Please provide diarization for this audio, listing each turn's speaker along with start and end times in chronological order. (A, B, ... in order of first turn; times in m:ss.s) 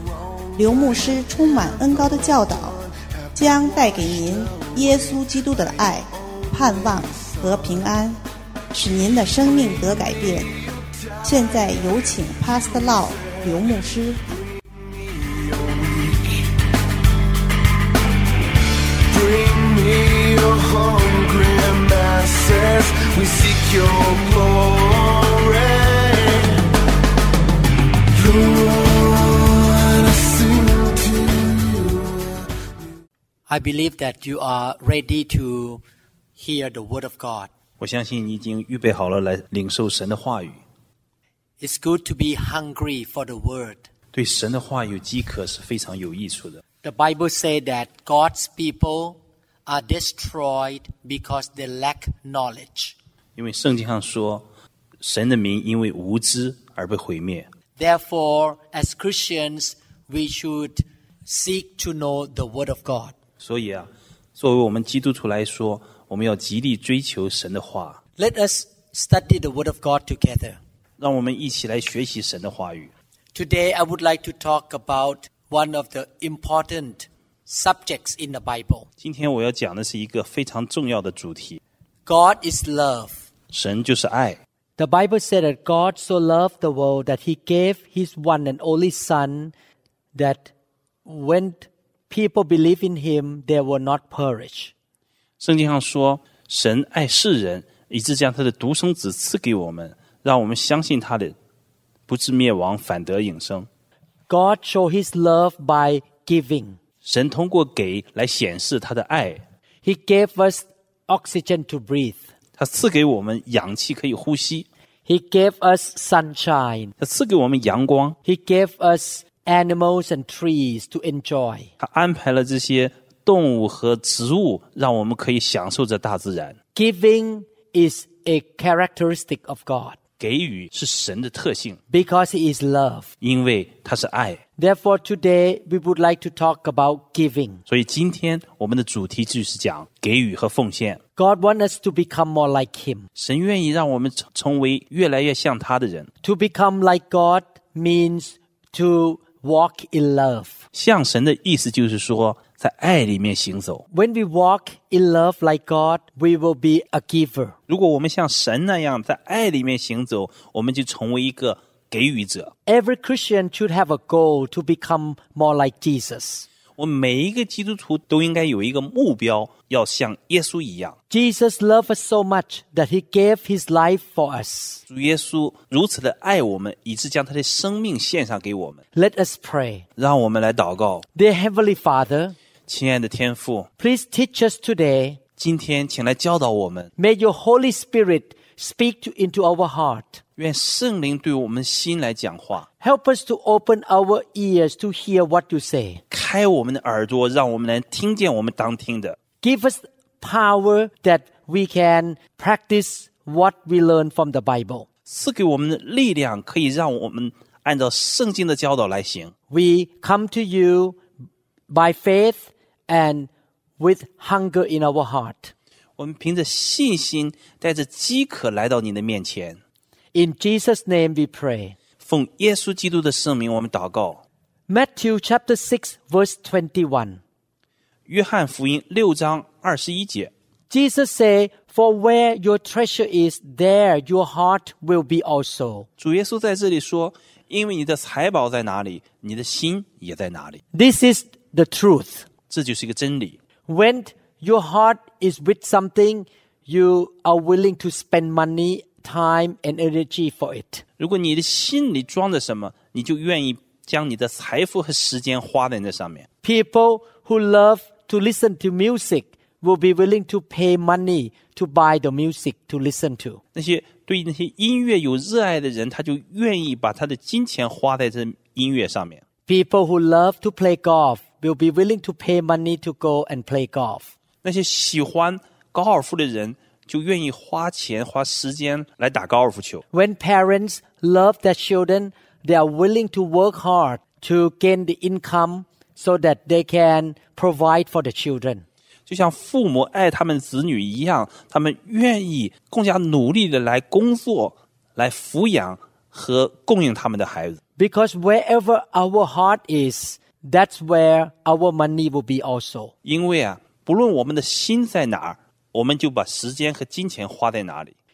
0:00.6-0:02.8 A
0:03.4-0:08.2 A
0:08.7-0:10.5 A
0:11.2-0:14.2 A
0:14.8-0:16.5 B
0:19.1-0:26.6 B
0:28.1-0:32.5 B
0:33.5-0:35.8 C
0:36.4-0:37.5 C
0:37.8-0:40.6 D
0:41.6-0:43.8 C
0:44.1-0:46.6 D
0:46.8-0:53.0 C
0:53.4-0:54.5 D
0:55.0-0:57.5 D
0:57.8-1:03.1 C
1:03.4-1:08.0 D
1:08.2-1:10.6 C
1:11.0-1:12.9 D
1:13.3-1:18.9 C
1:19.0-1:21.6 D
1:22.1-1:23.2 C
1:23.5-1:24.4 D
1:24.8-1:29.5 C
1:30.2-1:30.5 C
1:31.0-1:34.7 C
1:35.4-1:41.4 D
1:42.1-1:43.7 D
1:44.3-1:46.8 C
1:47.0-1:49.4 D
1:49.8-1:52.2 C
1:52.6-1:54.7 D
1:55.1-1:56.9 C
1:57.0-1:58.2 D
1:58.2-2:01.7 C
2:01.8-2:06.6 D
2:06.7-2:10.0 C
2:10.2-2:11.8 D
2:11.9-2:13.1 C
2:13.2-2:14.4 D
2:14.6-2:17.6 C
2:17.7-2:21.0 D
2:21.2-2:23.1 C
2:23.2-2:26.1 D
2:26.2-2:30.6 C
2:30.7-2:33.8 D
2:33.9-2:37.6 C
2:37.7-2:42.5 D
2:42.7-2:46.5 C
2:46.8-2:51.0 D
2:51.1-2:54.8 C
2:54.9-2:58.8 D
2:58.9-2:59.9 C
3:00.0-3:01.0 D
3:01.2-3:02.4 C
3:02.7-3:03.7 D
3:03.8-3:05.2 C
3:05.4-3:06.9 D
3:07.0-3:10.2 C
3:10.4-3:12.7 D
3:12.8-3:16.0 C
3:16.1-3:19.2 D
3:19.4-3:24.9 C
3:25.1-3:29.3 D
3:29.5-3:31.0 C
3:31.7-3:35.5 C
3:36.0-3:39.6 D
3:40.1-3:41.8 C
3:42.0-3:44.2 D
3:44.7-3:47.2 C
3:48.1-3:50.3 D
3:50.7-3:55.9 C
3:56.0-4:00.6 D
4:00.7-4:02.3 C
4:02.5-4:03.4 D
4:03.7-4:10.8 C
4:11.0-4:16.3 D
4:16.4-4:23.4 C
4:23.6-4:29.2 D
4:29.5-4:34.1 C
4:34.4-4:39.8 D
4:39.9-4:48.6 C
4:49.1-4:57.6 D
4:57.8-5:02.9 C
5:03.0-5:08.0 D